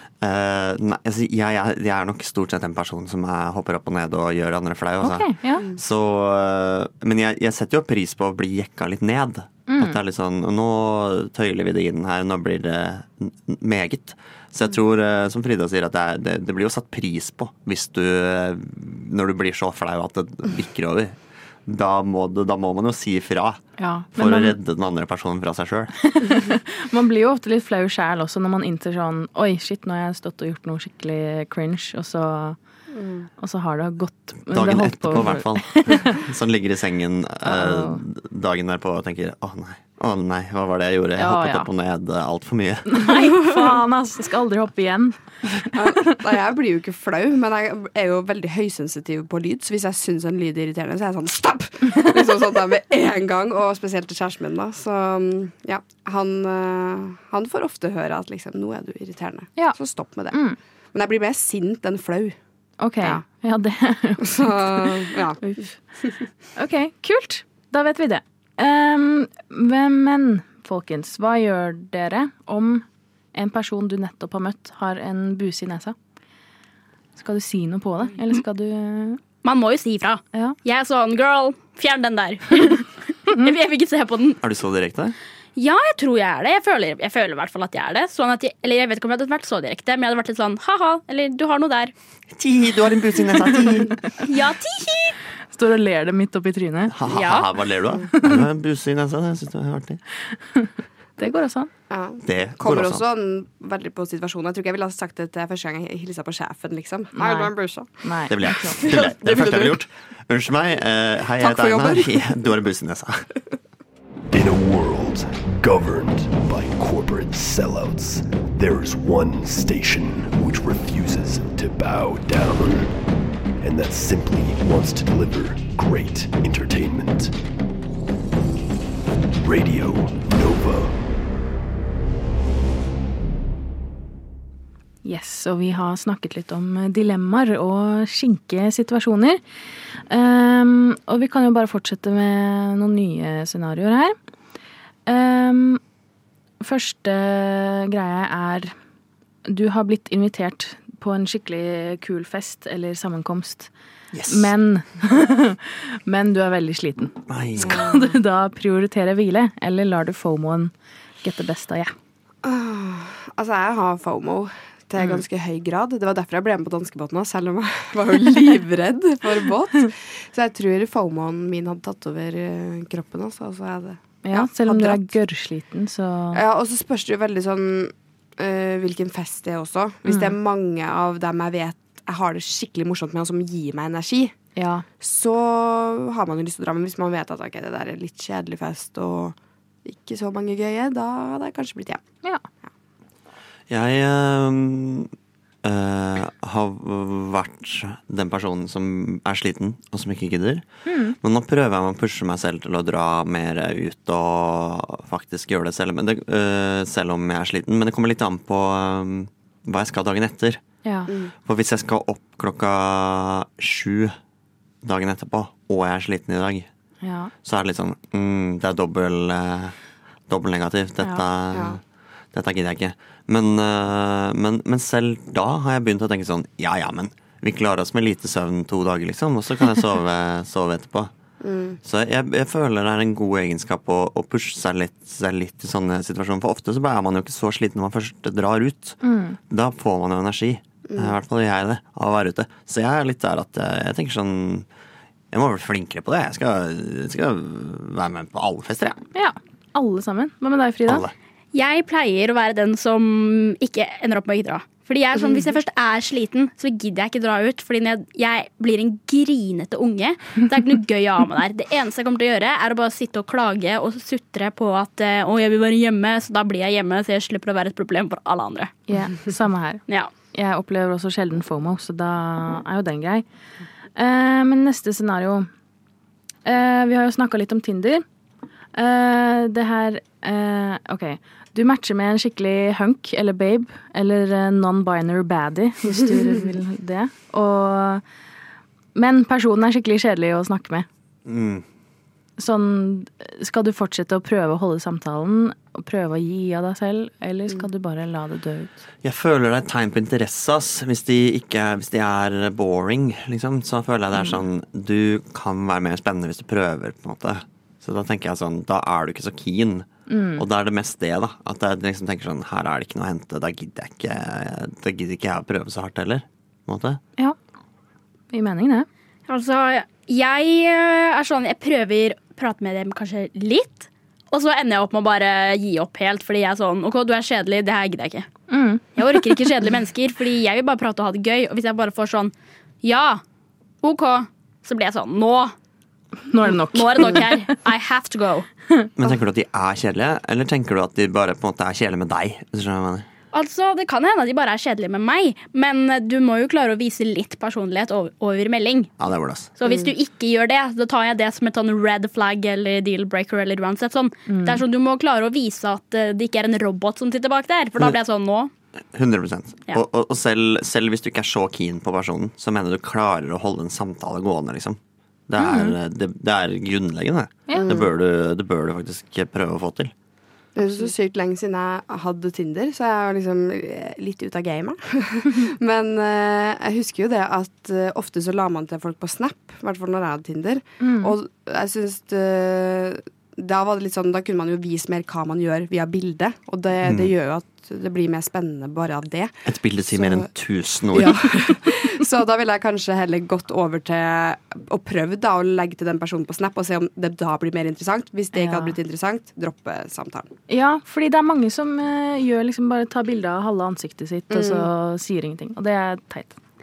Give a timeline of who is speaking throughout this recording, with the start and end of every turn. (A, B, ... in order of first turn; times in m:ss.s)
0:00.2-0:23.6 A
0:05.0-0:05.6 B
0:09.7-0:10.0 B
0:23.8-0:24.6 B
0:24.2-0:25.9 A
0:26.0-0:32.6 B
0:33.0-0:33.3 C
0:33.4-0:36.2 B
0:34.5-0:43.1 A
0:37.4-0:38.0 B
0:41.2-0:41.7 B
0:42.9-0:45.8 B
0:45.7-1:00.4 C
1:00.3-1:00.6 B
1:00.9-1:02.4 C
1:02.8-1:05.7 B
1:04.2-1:05.4 C
1:06.6-1:16.0 B
1:17.2-1:19.2 B
1:19.4-1:24.4 D
1:24.4-1:25.2 A
1:25.6-1:31.9 D
1:32.3-1:34.0 A
1:34.2-1:35.2 D
1:35.5-1:36.9 B
1:36.9-1:40.0 A
1:37.1-1:37.5 D
1:38.1-1:38.4 B
1:40.5-1:41.7 B
1:41.9-1:47.9 C
1:42.2-1:43.0 A
1:47.2-1:48.8 B
1:48.3-1:53.3 A
1:48.6-1:49.8 C
1:51.4-1:52.3 C
1:54.3-2:03.0 E
2:03.6-2:07.3 E
2:09.4-2:11.0 E
2:15.0-2:19.4 B
2:20.1-2:24.2 B
2:25.1-2:25.8 B
2:26.6-2:28.7 B
2:29.5-2:33.7 B
2:34.1-2:34.5 A
2:34.3-2:40.7 B
2:37.3-2:37.8 A
2:37.6-2:38.1 C
2:41.2-2:41.9 B
2:42.4-2:55.1 C
2:54.2-2:56.4 B
2:56.3-3:04.4 C
3:00.1-3:00.4 B
3:04.6-3:04.8 B
3:05.0-3:12.0 C
3:13.7-3:15.1 A
3:15.6-3:20.6 A
3:20.9-3:21.2 B
3:21.2-3:30.6 A
3:30.8-3:31.1 B
3:31.1-3:31.3 C
3:31.4-3:34.1 A
3:34.8-3:36.7 A
3:37.0-3:37.3 B
3:37.4-3:39.8 A
3:40.3-3:41.8 A
3:41.5-3:41.8 C
3:42.3-3:51.1 A
3:51.4-3:51.8 C
3:51.8-3:59.0 A
3:59.0-3:59.4 B
3:59.5-4:04.7 A
4:00.9-4:01.2 C
4:05.3-4:09.0 A
4:09.2-4:11.1 B
4:10.9-4:11.1 A
4:11.5-4:28.7 D
4:15.2-4:15.4 C
4:28.9-4:33.2 B
4:34.0-4:35.5 B
4:36.4-4:38.0 B
4:38.8-4:48.0 B
4:49.0-4:50.9 B
4:51.3-4:51.6 A
4:52.4-4:58.7 B
4:59.0-5:17.0 A
5:10.1-5:10.4 B
5:18.3-5:18.9 B
5:19.3-5:28.3 D
5:28.5-5:29.4 B
5:29.0-5:33.2 D
5:33.8-5:35.5 D
5:36.3-5:37.4 B
5:36.7-5:38.5 D
5:39.0-5:43.1 A
5:43.3-5:48.9 D
5:49.0-5:49.5 A
5:49.6-5:58.5 D
5:49.7-5:49.9 C
5:54.3-5:54.6 B
5:58.9-6:09.9 A
6:05.4-6:05.8 B
6:07.5-6:07.9 C
6:10.6-6:30.3 C
6:20.8-6:21.2 B
6:26.8-6:27.1 A
6:29.5-6:31.4 A
6:30.9-6:40.3 C
6:38.3-6:38.8 B
6:40.5-6:46.4 B
6:44.3-6:44.7 C